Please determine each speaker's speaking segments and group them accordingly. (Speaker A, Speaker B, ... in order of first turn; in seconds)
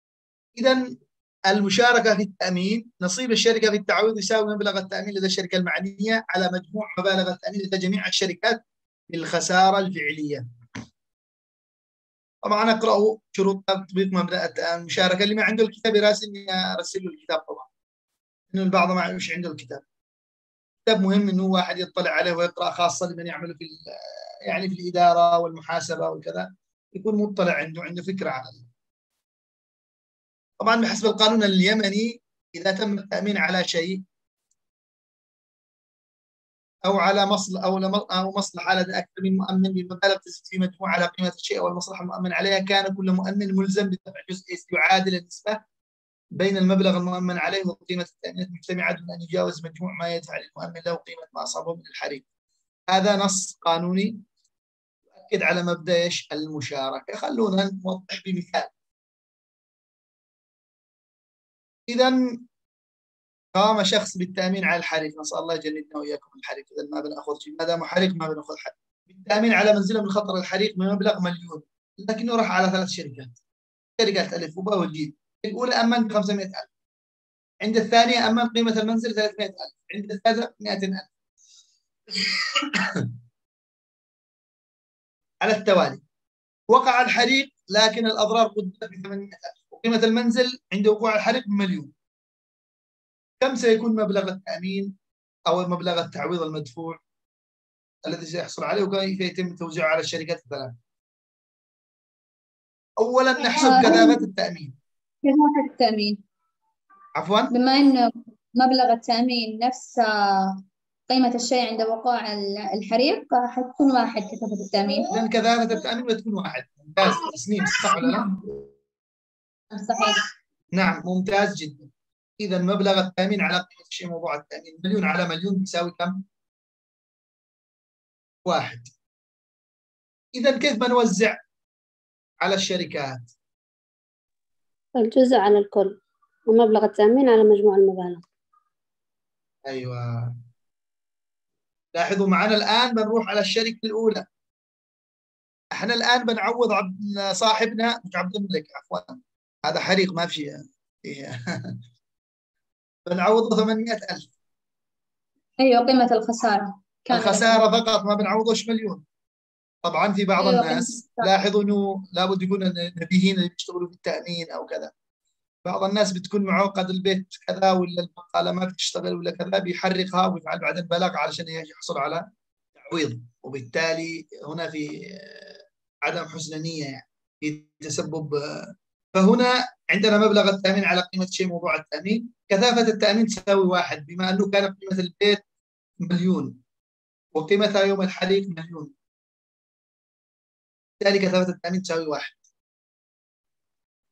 Speaker A: 0.6-0.9, 1.5-10.4, 12.4-17.7, 18.5-19.8, 20.9-23.8, 24.5-28.6, 30.6-34.0, 36.8-45.6, 46.3-52.2, 52.9-54.2, 55.3-58.7, 61.9-62.2, 63.5-73.3, 74.0-76.7, 77.6-81.1, 82.1-83.1, 85.4-86.0, 86.7-91.9, 93.4-94.9, 95.5-97.0, 98.0-100.7, 103.0-104.8, 107.2-107.5, 115.1-118.3, 120.7-126.2, 128.4-128.9, 130.3-131.4, 132.4-133.3, 139.7-140.3, 141.9-144.2, 145.7-151.8, 153.1-154.3, 157.1-159.0, 159.8-164.9, 165.6-172.2, 172.8-185.4, 186.0-186.6, 187.3-188.9, 191.0-192.4
Speaker B: 103.4-104.2, 105.2-106.2, 107.5-115.1, 118.0-118.5, 119.7-120.3, 155.6-157.6, 160.4-161.3
Speaker C: 135.0-136.0, 136.5-138.2